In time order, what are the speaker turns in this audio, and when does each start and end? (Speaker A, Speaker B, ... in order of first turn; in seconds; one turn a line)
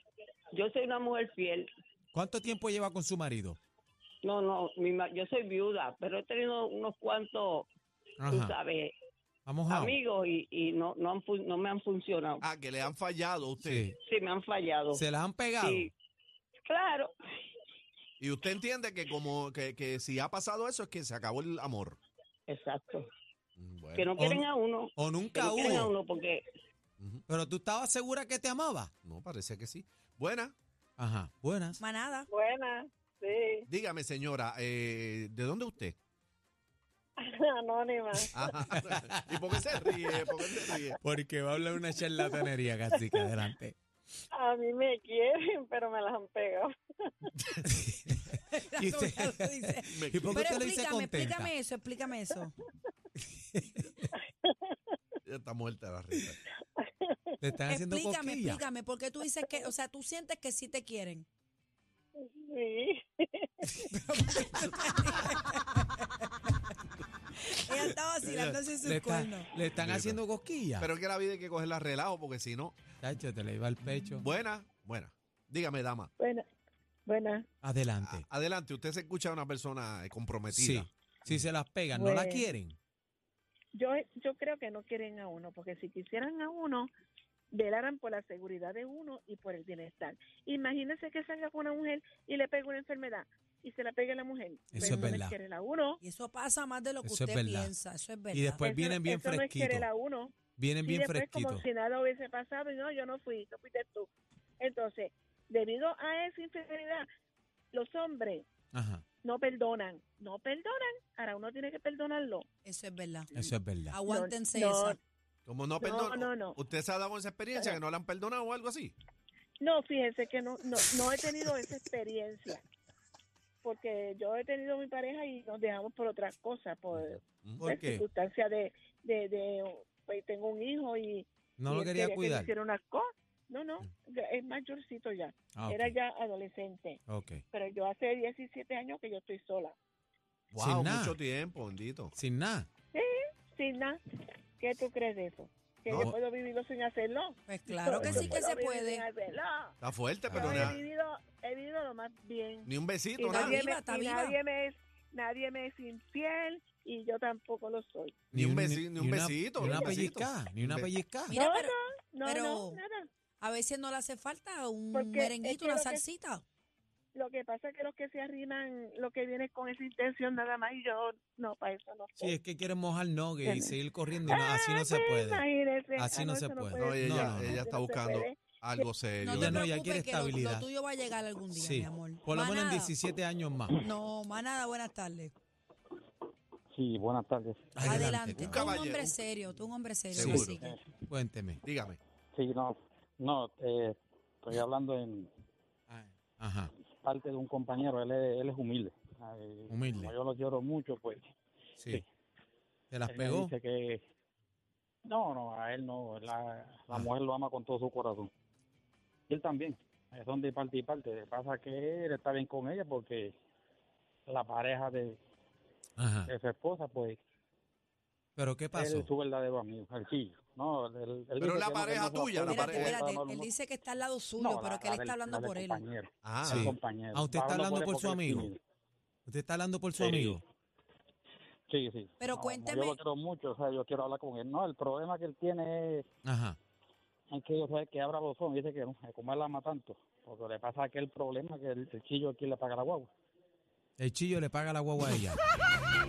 Speaker A: 0.5-1.7
Speaker B: 2.1-3.6
Speaker A: 4.2-7.7
Speaker B: 8.2-8.6
Speaker A: 8.3-8.9
Speaker B: 9.4-9.9
Speaker A: 9.7-12.4
Speaker C: 12.4-13.8
Speaker B: 13.6-13.9
Speaker A: 14.0-15.0
Speaker B: 14.9-15.9
Speaker A: 15.6-15.9
Speaker A: 16.7-17.1
Speaker C: 18.2-22.0
Speaker A: 22.5-23.0
Speaker C: 23.6-24.1
Speaker A: 23.9-26.4
Speaker B: 24.2-24.4
Speaker B: 24.9-25.9
Speaker B: 27.3-28.9
Speaker C: 29.0-30.5
Speaker B: 31.0-31.8
Speaker D: 31.8-32.3
Speaker E: 32.3-33.6
Speaker C: 33.7-36.0
Speaker E: 37.2-38.2
Speaker C: 38.3-41.0
Speaker B: 38.7-39.1
Speaker B: 41.0-43.8
Speaker E: 44.3-46.7
Speaker B: 47.6-48.2
Speaker D: 48.5-52.5
Speaker B: 48.8-51.5
Speaker C: 49.9-50.5
Speaker B: 53.3-54.1
Speaker E: 54.4-54.7
Speaker C: 55.2-56.4
Speaker E: 56.8-57.1
Speaker B: 57.4-58.6
Speaker D: 57.7-61.3
Speaker E: 62.2-63.5
Speaker D: 63.9-66.6
Speaker D: 67.4-69.5
Speaker C: 68.2-68.6
Speaker B: 68.8-70.9
Speaker C: 69.8-70.2
Speaker C: 70.8-72.8
Speaker B: 73.0-74.2
Speaker C: 74.2-76.1
Speaker E: 76.2-76.4
Speaker E: 77.0-77.4
Speaker B: 77.6-78.2
Speaker C: 78.0-81.4
Speaker B: 80.5-82.8
Speaker E: 82.0-82.4
Speaker E: 83.8-86.9
Speaker E: 87.5-96.0
Speaker B: 94.7-95.3
Speaker D: 94.8-95.1
Speaker D: 96.0-98.6
Speaker B: 97.0-97.7
Speaker B: 98.3-99.9
Speaker E: 98.6-100.3
Speaker B: 100.5-101.6
Speaker E: 100.8-104.1
Speaker E: 104.6-107.0
Speaker E: 107.7-108.4
Speaker B: 108.7-109.0
Speaker E: 109.2-112.4
Speaker D: 112.6-113.3
Speaker B: 113.3-114.0
Speaker D: 113.9-115.0
Speaker E: 114.1-114.7
Speaker C: 115.5-119.0
Speaker E: 115.8-116.5
Speaker E: 119.6-122.6
Speaker E: 123.6-137.0
Speaker B: 127.6-128.0
Speaker B: 131.6-132.5
Speaker B: 135.5-135.9
Speaker B: 137.1-137.4
Speaker E: 137.5-139.7
Speaker C: 140.5-142.1
Speaker B: 140.6-141.1
Speaker B: 142.2-142.7
Speaker E: 142.9-144.0
Speaker E: 144.6-149.7
Speaker C: 145.9-146.1
Speaker D: 147.5-149.0
Speaker C: 148.0-148.3
Speaker C: 149.8-150.8
Speaker B: 150.3-150.7
Speaker E: 150.3-152.7
Speaker C: 152.7-153.6
Speaker E: 153.2-158.2
Speaker D: 153.3-154.4
Speaker B: 158.3-161.4
Speaker C: 158.3-160.9
Speaker D: 161.3-162.8
Speaker E: 161.3-163.0
Speaker D: 163.4-166.4
Speaker E: 164.9-166.0
Speaker E: 167.1-172.3
Speaker B: 172.2-177.6
Speaker E: 174.2-178.4
Speaker C: 176.8-179.7
Speaker D: 179.2-182.9
Speaker B: 179.3-180.7
Speaker B: 181.5-183.8
Speaker D: 183.7-185.3
Speaker F: 186.7-188.0
Speaker B: 187.8-188.6
Speaker D: 187.8-190.7
Speaker C: 188.4-189.2
Speaker C: 190.1-190.5
Speaker B: 190.1-191.6
Speaker F: 190.5-190.8
Speaker C: 191.6-192.0
Speaker F: 192.3-195.3
Speaker B: 195.9-196.7
Speaker F: 197.0-201.2
Speaker B: 199.7-200.1
Speaker B: 202.9-203.5
Speaker F: 203.1-204.0
Speaker F: 205.1-208.3
Speaker F: 209.3-213.3
Speaker F: 214.3-215.2
Speaker B: 216.0-216.3
Speaker F: 216.2-217.2
Speaker B: 218.4-219.1
Speaker F: 218.7-223.5
Speaker C: 221.4-223.0
Speaker D: 222.5-225.8
Speaker F: 224.4-228.6
Speaker C: 226.2-226.7
Speaker B: 226.4-228.5
Speaker B: 229.3-230.4
Speaker F: 230.0-230.4
Speaker F: 231.7-236.0
Speaker D: 232.2-233.0
Speaker B: 236.2-236.6
Speaker F: 237.3-243.1
Speaker B: 244.0-245.4